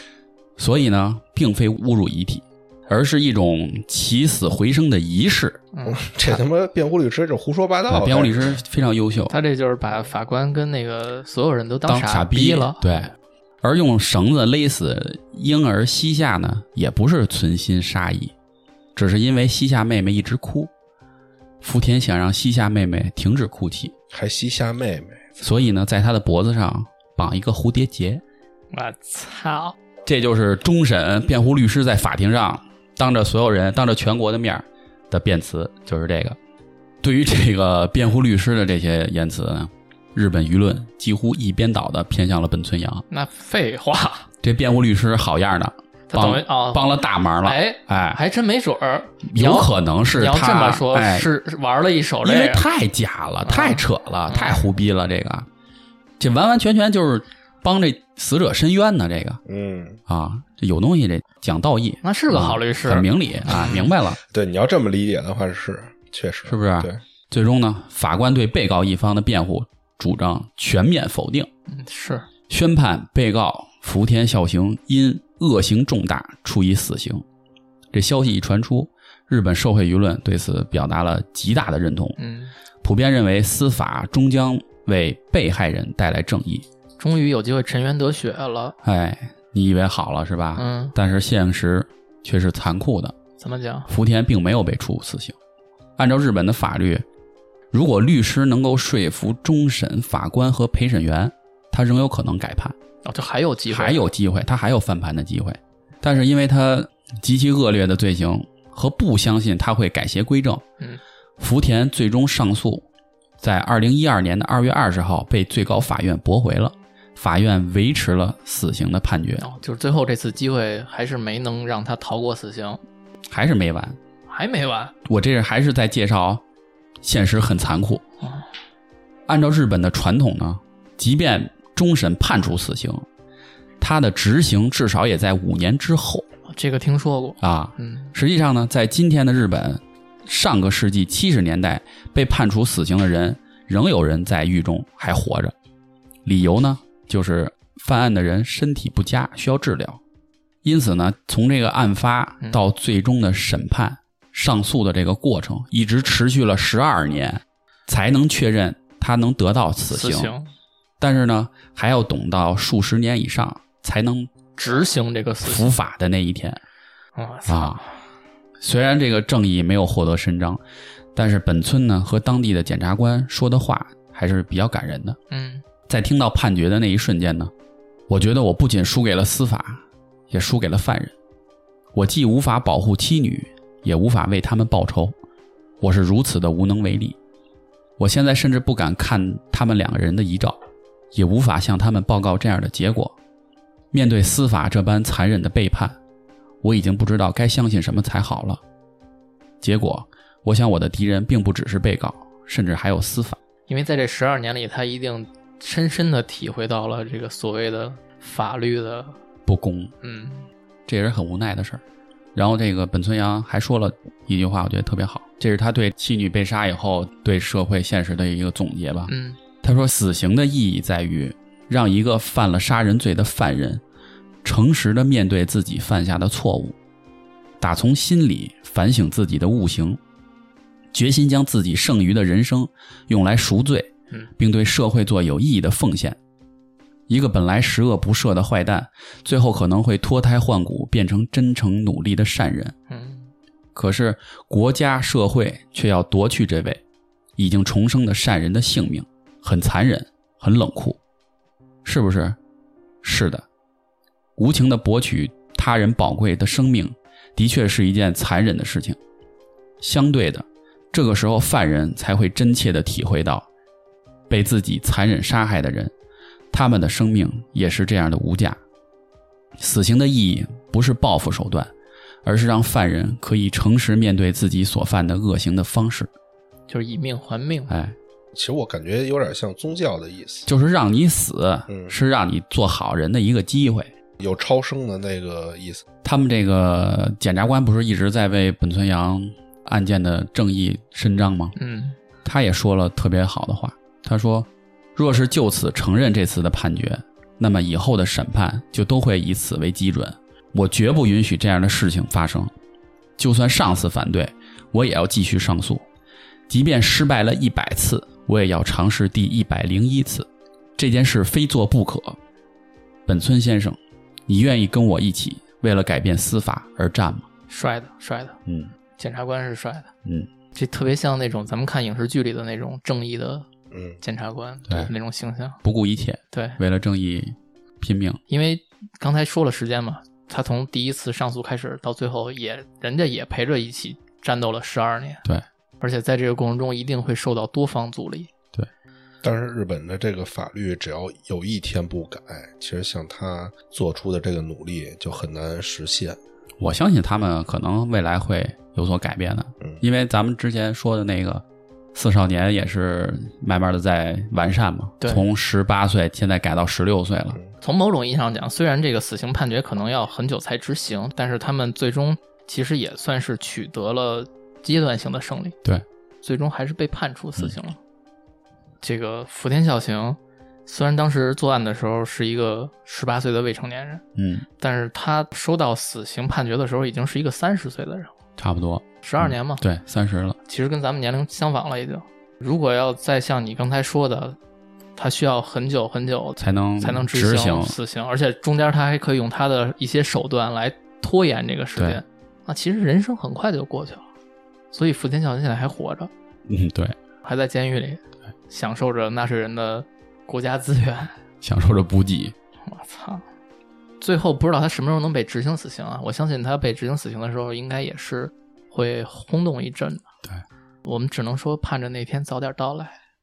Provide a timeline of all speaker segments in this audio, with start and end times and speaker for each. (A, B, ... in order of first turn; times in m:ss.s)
0:00.6-0:05.6 A
0:05.7-0:06.1 B
0:05.8-0:08.6 C
0:07.9-0:09.3 A
0:09.3-0:13.0 B
0:11.8-0:18.3 A
0:18.9-0:20.7 A
0:21.6-0:23.9 A
0:24.1-0:25.4 C
0:25.4-0:28.2 A
0:28.7-0:29.8 B
0:30.0-0:36.4 A
0:37.0-0:43.0 A
0:43.1-0:44.3 B
0:44.4-0:48.2 A
0:46.1-0:52.7 B
0:49.2-0:51.3 A
0:52.2-0:55.5 A
0:53.4-0:54.6 B
0:56.2-0:59.4 A
0:59.4-1:00.0 C
1:00.1-1:04.2 A
1:02.0-1:03.9 B
1:04.3-1:07.0 C
1:06.4-1:11.5 A
1:11.7-1:12.3 B
1:12.5-1:17.2 A
1:17.9-1:22.2 A
1:22.2-1:22.5 B
1:22.8-1:26.6 A
1:27.0-1:28.8 B
1:28.8-1:33.1 A
1:30.6-1:30.9 B
1:33.4-1:33.9 B
1:33.9-1:35.4 A
1:36.0-1:37.0 A
1:37.7-1:42.8 A
1:43.0-1:44.0 B
1:43.7-1:50.6 A
1:51.4-1:52.9 A
1:53.4-1:59.4 A
1:59.4-2:02.8 B
2:03.3-2:04.0 A
2:04.3-2:04.9 B
2:05.0-2:06.4 A
2:07.0-2:08.0 A
2:09.3-2:13.1 A
2:13.8-2:16.2 A
2:16.5-2:18.1 B
2:17.4-2:25.5 A
2:26.2-2:30.0 A
2:30.6-2:40.3 A
2:39.9-2:40.5 B
2:41.0-2:44.3 A
2:44.5-2:45.7 B
2:45.4-2:46.6 A
2:47.2-2:48.0 B
2:47.5-2:47.8 A
2:48.6-2:50.6 A
2:51.1-2:55.2 A
2:55.3-2:55.6 B
2:55.9-2:57.5 A
2:58.1-3:01.1 A
3:01.9-3:05.2 A
3:05.8-3:07.2 A
3:08.0-3:10.6 A
3:11.1-3:13.2 A
3:13.9-3:16.0 A
3:16.6-3:18.6 A
3:19.6-3:23.4 A
3:23.7-3:29.2 B
3:29.4-3:29.9 A
3:30.0-3:30.5 B
3:30.8-3:31.8 A
3:32.3-3:43.8 A
3:39.1-3:39.4 B
3:44.4-3:46.8 A
3:47.6-3:50.0 A
3:50.9-3:56.2 A
3:57.1-4:02.7 A
4:02.9-4:03.3 B
4:03.7-4:06.8 A
4:07.4-4:11.0 A
4:11.8-4:12.4 A
4:13.0-4:13.4 A
4:14.4-4:19.0 A
4:19.8-4:23.5 A
4:24.3-4:25.9 A
4:26.5-4:28.6 A
4:29.6-4:31.7 A
4:32.2-4:36.1 A
4:36.7-4:37.7 B
4:37.7-4:38.0 A
4:38.3-4:40.5 C
4:40.4-4:43.9 A
4:41.7-4:41.9 C
4:44.2-4:45.8 C
4:46.0-4:51.6 A
4:51.6-4:52.0 B
4:52.2-5:02.5 A
5:03.2-5:05.9 A
5:06.5-5:12.2 A
5:13.1-5:17.3 A
5:17.5-5:18.4 B
5:18.4-5:18.7 A
5:19.0-5:19.9 B
5:20.5-5:23.5 B
5:23.7-5:24.0 C
5:24.0-5:25.6 B
5:25.6-5:28.2 A
5:26.3-5:26.6 B
5:28.3-5:35.2 B
5:35.8-5:38.3 B
5:39.2-5:46.2 C
5:46.6-5:57.4 A
5:57.6-6:05.6 B
6:06.2-6:07.8 B
6:08.8-6:14.0 B
6:14.2-6:14.4 A
6:14.6-6:18.1 B
6:18.4-6:20.4 A
6:19.0-6:19.6 B
6:20.4-6:24.4 B
6:25.0-6:34.0 B
6:26.4-6:27.7 A
6:31.8-6:32.0 A
6:34.7-6:36.1 B
6:36.4-6:37.0 A
6:37.2-6:41.2 B
6:41.4-6:42.3 A
6:42.6-6:43.2 B
6:44.0-6:50.0 B
6:50.8-6:53.0 B